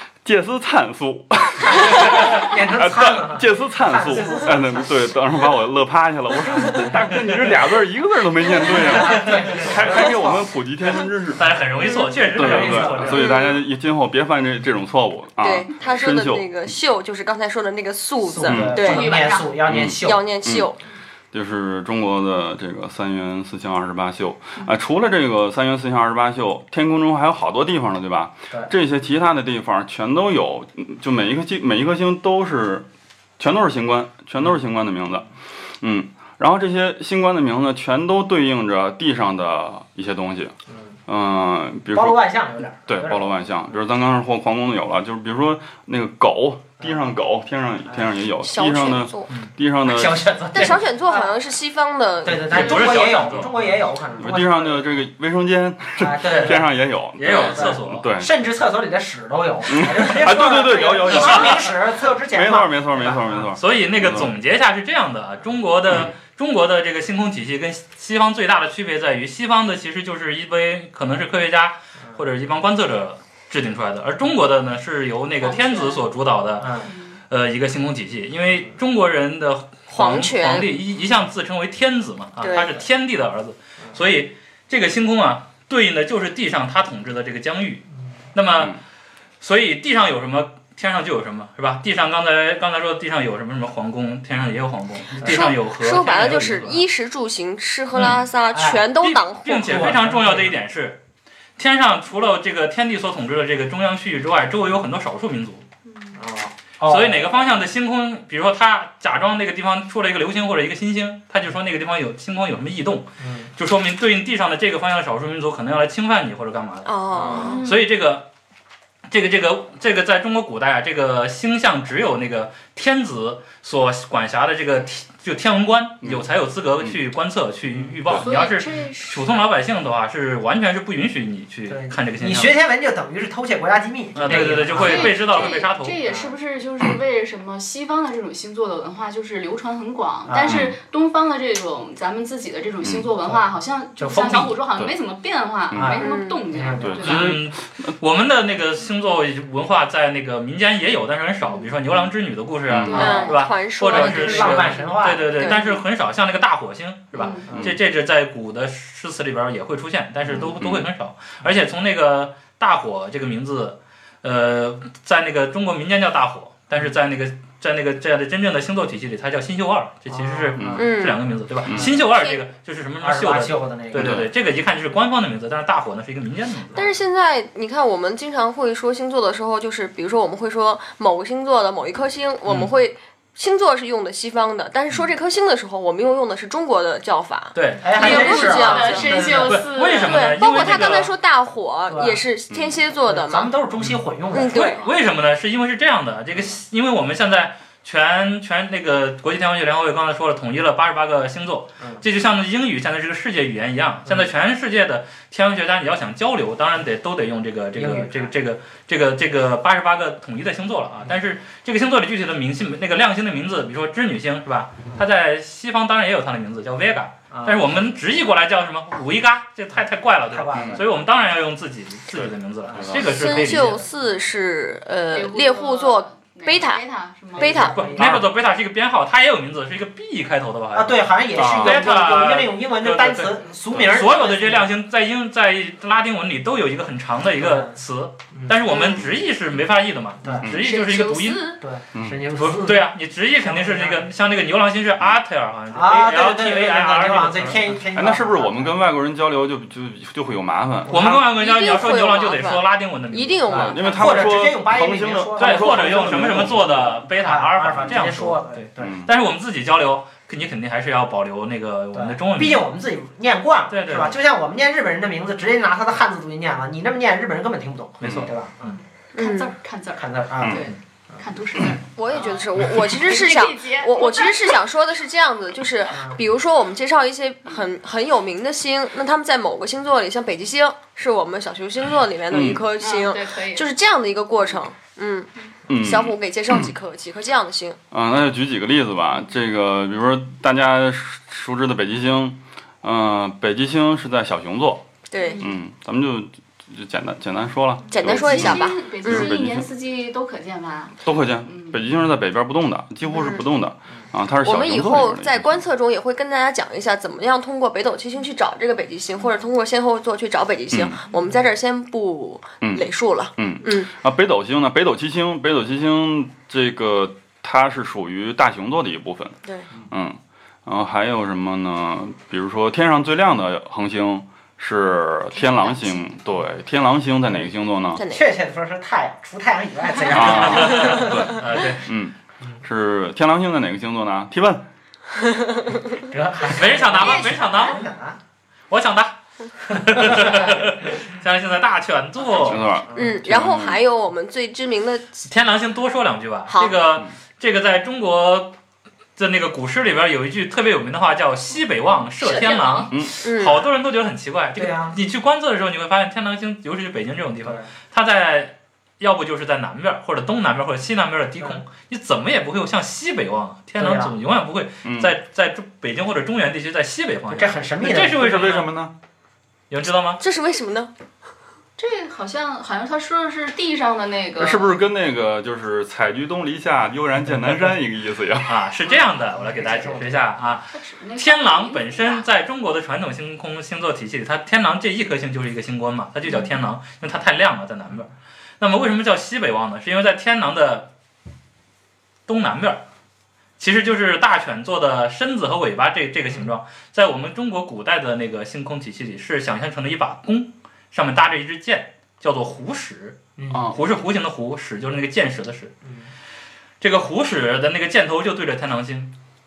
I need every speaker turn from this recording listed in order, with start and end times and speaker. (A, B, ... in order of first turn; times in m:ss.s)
0:00.2-0:11.5 A
0:01.7-0:04.9 B
0:08.6-0:10.4 B
0:08.8-0:09.1 C
0:09.1-0:09.4 D
0:11.4-0:13.2 D
0:12.2-0:13.3 B
0:12.3-0:16.6 A
0:13.1-0:13.6 C
0:15.4-0:19.1 C
0:18.2-0:20.2 B
0:18.5-0:18.9 A
0:18.8-0:19.7 E
0:19.7-0:20.7 A
0:20.0-0:20.8 C
0:21.3-0:32.9 A
0:33.4-0:35.3 A
0:35.8-0:40.5 A
0:41.1-0:42.2 A
0:41.9-0:43.3 B
0:42.9-0:50.3 A
0:48.4-0:49.3 C
0:49.8-0:51.3 B
0:50.5-0:53.1 C
0:52.2-0:55.0 B
0:52.5-0:53.8 D
0:52.8-0:53.5 A
0:54.2-0:58.3 A
0:56.0-0:56.7 B
0:57.2-0:58.1 D
0:57.3-1:03.5 B
0:59.7-1:04.3 A
1:03.5-1:16.7 D
1:15.4-1:16.0 E
1:16.6-1:16.9 B
1:16.8-1:17.2 E
1:17.3-1:28.8 D
1:19.9-1:20.8 C
1:22.4-1:22.7 C
1:22.4-1:22.7 B
1:29.4-1:36.8 D
1:35.2-1:35.5 B
1:35.2-1:39.7 C
1:37.9-1:38.3 D
1:38.5-1:38.9 B
1:39.0-1:41.0 D
1:39.4-1:40.6 B
1:41.6-1:45.6 D
1:45.9-1:46.2 E
1:46.2-1:47.3 B
1:46.8-1:58.3 D
1:53.2-1:53.5 B
1:56.9-1:57.6 C
1:57.1-1:57.6 B
1:57.3-1:57.8 E
1:59.1-2:12.6 D
2:06.0-2:06.3 A
2:08.1-2:09.3 E
2:11.7-2:15.3 B
2:14.2-2:16.0 D
2:14.3-2:27.4 E
2:16.0-2:16.4 B
2:20.3-2:20.7 B
2:20.5-2:20.8 A
2:22.8-2:23.1 A
2:24.0-2:24.6 B
2:25.7-2:26.0 A
2:25.7-2:27.4 B
2:26.0-2:26.5 C
2:26.8-2:27.9 A
2:27.0-2:56.8 D
2:31.4-2:31.7 E
2:32.7-2:33.2 A
2:32.8-2:33.5 E
2:32.9-2:35.8 C
2:33.9-2:35.5 B
2:37.1-2:37.5 E
2:37.5-2:37.8 B
2:40.3-2:40.9 A
2:50.1-2:50.9 B
2:50.6-2:50.9 A
2:50.8-2:51.2 C
2:51.7-2:51.9 A
2:51.8-2:52.0 B
2:52.2-2:52.4 C
2:53.0-2:54.3 B
2:54.0-2:54.3 A
2:56.8-3:09.1 C
3:02.5-3:02.7 D
3:07.6-3:11.1 D
3:07.8-3:09.6 B
3:08.0-3:10.6 E
3:10.1-3:13.5 C
3:11.9-3:12.2 B
3:12.5-3:12.8 A
3:13.0-3:14.8 B
3:13.8-3:43.9 D
3:14.3-3:14.9 C
3:27.8-3:28.3 B
3:37.3-3:37.8 B
3:40.3-3:40.9 B
3:40.5-3:40.8 A
3:42.1-3:43.0 A
3:42.7-3:43.0 B
3:43.0-3:46.8 C
3:45.1-3:47.6 E
3:47.3-3:47.9 C
3:47.4-3:48.2 B
3:47.4-4:01.5 D
3:48.0-3:48.3 A
3:50.7-3:54.7 B
3:51.4-3:51.9 A
3:57.4-3:57.8 B
3:58.7-3:59.1 C
4:00.6-4:01.6 E
4:01.6-4:04.0 B
4:01.9-4:02.2 A
4:02.4-4:07.8 D
4:05.7-4:08.8 B
4:07.9-4:11.0 A
4:10.9-4:11.3 B
4:10.9-4:13.7 D
4:11.3-4:13.8 C
4:13.5-4:16.9 A
4:13.5-4:19.0 B
4:15.4-4:22.7 D
4:18.8-4:19.1 A
4:21.9-4:28.8 B
4:23.7-4:24.2 D
4:28.0-4:28.3 A
4:29.2-4:29.5 C
4:29.2-4:34.6 E
4:30.0-4:31.2 B
4:32.0-4:47.8 C
4:42.3-4:42.6 A
4:42.8-4:43.7 E
4:45.7-4:46.7 A
4:47.9-4:54.9 A
4:55.1-4:55.5 C
4:55.2-4:55.5 E
4:55.4-4:59.7 A
4:57.8-5:01.8 E
4:57.9-4:59.3 C
5:01.0-5:05.6 A
5:03.1-5:03.4 C
5:04.4-5:13.9 C
5:10.7-5:11.0 A
5:12.6-5:28.0 A
5:28.0-5:28.3 C
5:28.1-5:31.4 B
5:30.1-5:34.6 A
5:30.2-5:31.9 D
5:35.3-5:35.8 C
5:36.0-5:38.2 B
5:36.5-5:37.8 D
5:37.0-5:37.6 E
5:38.7-5:42.6 D
5:40.0-5:40.6 B
5:42.4-5:43.8 A
5:42.9-5:43.2 B
5:42.9-5:45.3 C
5:45.3-5:48.5 D
5:46.5-5:46.8 C
5:49.2-6:08.7 D
5:52.2-5:52.9 E
5:53.2-5:53.6 C
5:54.6-5:55.0 B
6:03.8-6:04.1 B
6:04.8-6:05.2 A
6:07.3-6:08.6 B
6:08.2-6:08.9 A
6:09.7-6:10.2 D
6:10.2-6:10.9 C
6:11.8-6:14.8 E
6:14.4-6:18.5 A
6:18.5-6:30.9 D
6:18.9-6:20.4 B
6:20.7-6:22.3 E
6:32.3-6:32.8 D
6:33.6-6:45.8 D
6:43.4-6:43.7 B
6:43.5-6:43.8 A
6:46.8-6:49.1 D